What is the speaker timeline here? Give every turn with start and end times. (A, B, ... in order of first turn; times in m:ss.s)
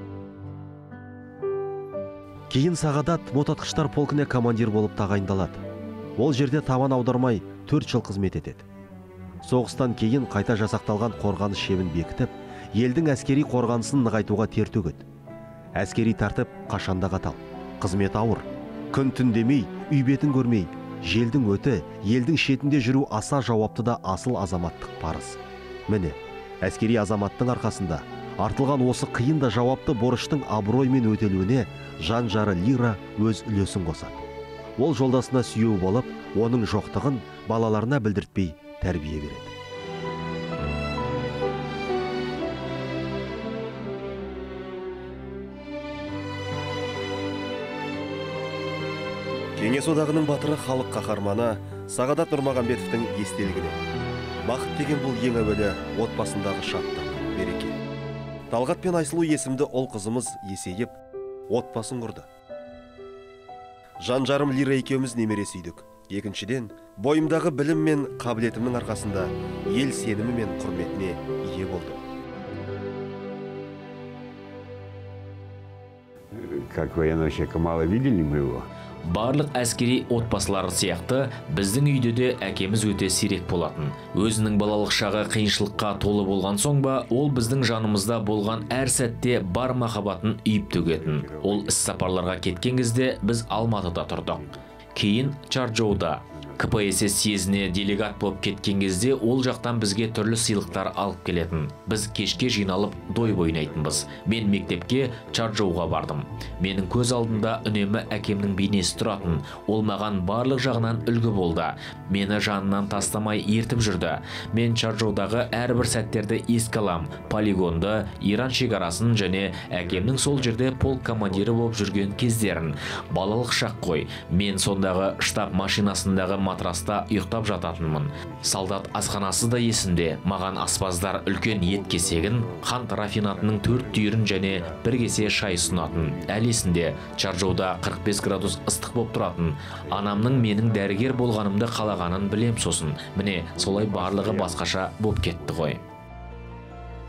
0:02.5-0:05.6 A
0:06.2-0:08.6 A
0:09.4-0:15.0 A
0:15.8-0:34.2 A
0:34.8-0:39.5 A
0:49.6-0:53.8 A
0:54.4-0:57.8 A
0:58.5-1:00.9 A
1:01.5-1:02.3 A
1:04.0-1:12.0 A
1:16.4-1:18.7 B
1:19.1-1:34.4 C
1:30.7-1:32.9 B
1:34.1-1:34.6 B
1:35.0-2:25.8 C
1:36.3-1:37.0 B
1:40.5-1:41.1 B
1:42.8-1:46.0 B
1:47.0-1:49.7 B
1:50.5-1:51.7 B
1:52.3-1:53.8 B
1:55.3-1:56.0 B
1:57.1-1:57.6 B
1:59.6-2:01.8 B
2:07.7-2:09.6 B
2:11.2-2:16.7 B
2:19.8-2:22.3 B
2:23.5-2:25.8 B